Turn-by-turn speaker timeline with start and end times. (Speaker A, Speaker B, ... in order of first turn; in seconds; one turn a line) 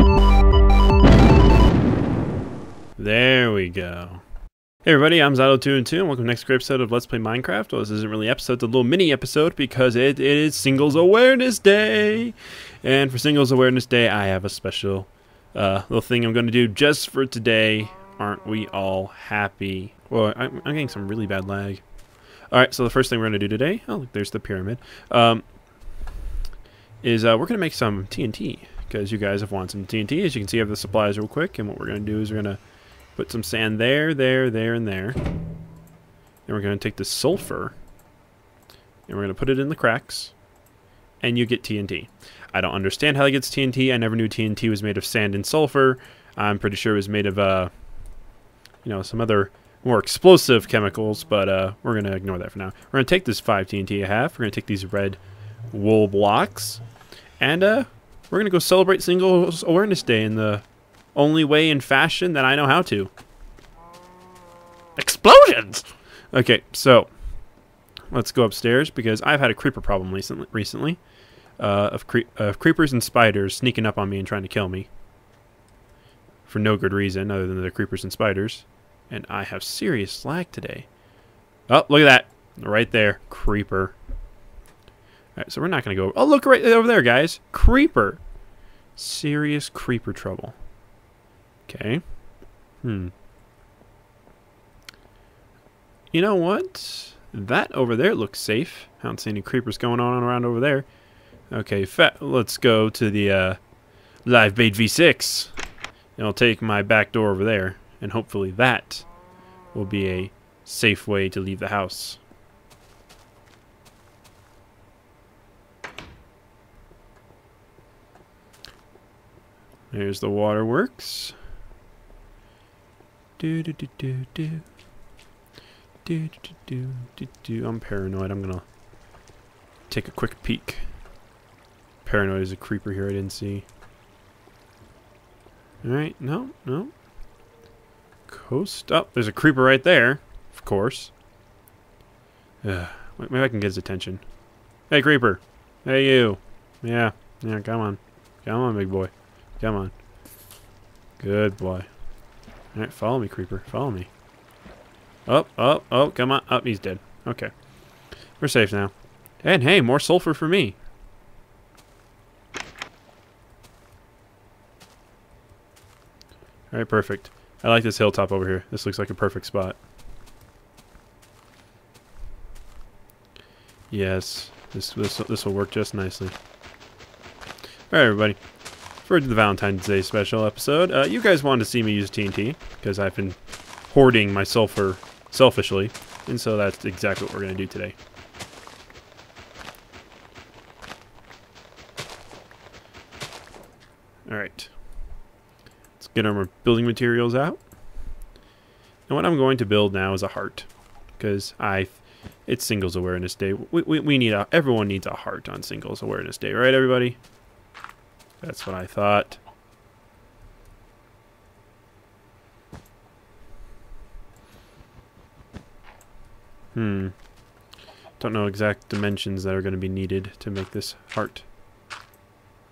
Speaker A: 3.0-4.2
Speaker A: 4.8-21.8
Speaker A: 22.5-25.4
Speaker A: 27.0-32.6
Speaker A: 33.1-35.2
Speaker A: 36.5-37.8
Speaker A: 39.1-40.4
Speaker A: 41.2-47.7
Speaker A: 48.8-55.2
Speaker A: 55.7-56.8
Speaker A: 57.4-63.1
Speaker A: 65.0-67.1
Speaker A: 68.1-71.0
Speaker A: 71.6-74.9
Speaker A: 76.5-80.9
Speaker A: 81.7-84.0
Speaker A: 85.4-88.2
Speaker A: 89.0-90.6
Speaker A: 91.7-92.0
Speaker A: 92.8-93.1
Speaker A: 96.1-100.9
Speaker A: 101.5-103.6
Speaker A: 104.2-105.5
Speaker A: 106.2-109.1
Speaker A: 109.7-112.2
Speaker A: 119.9-121.4
Speaker A: 123.4-124.7
Speaker A: 126.0-128.7
Speaker A: 129.9-130.9
Speaker A: 132.0-133.7
Speaker A: 135.8-136.9
Speaker A: 138.3-141.1
Speaker A: 142.6-144.2
Speaker A: 144.9-149.9
Speaker A: 151.2-151.9
Speaker A: 152.7-154.1
Speaker A: 155.3-157.5
Speaker A: 158.4-160.8
Speaker A: 166.7-169.8
Speaker A: 173.9-176.3
Speaker A: 177.9-178.4
Speaker A: 179.0-187.9
Speaker A: 194.3-194.7
Speaker A: 196.0-197.6
Speaker A: 199.1-207.2
Speaker A: 208.4-209.4
Speaker A: 216.8-217.1
Speaker A: 218.2-221.5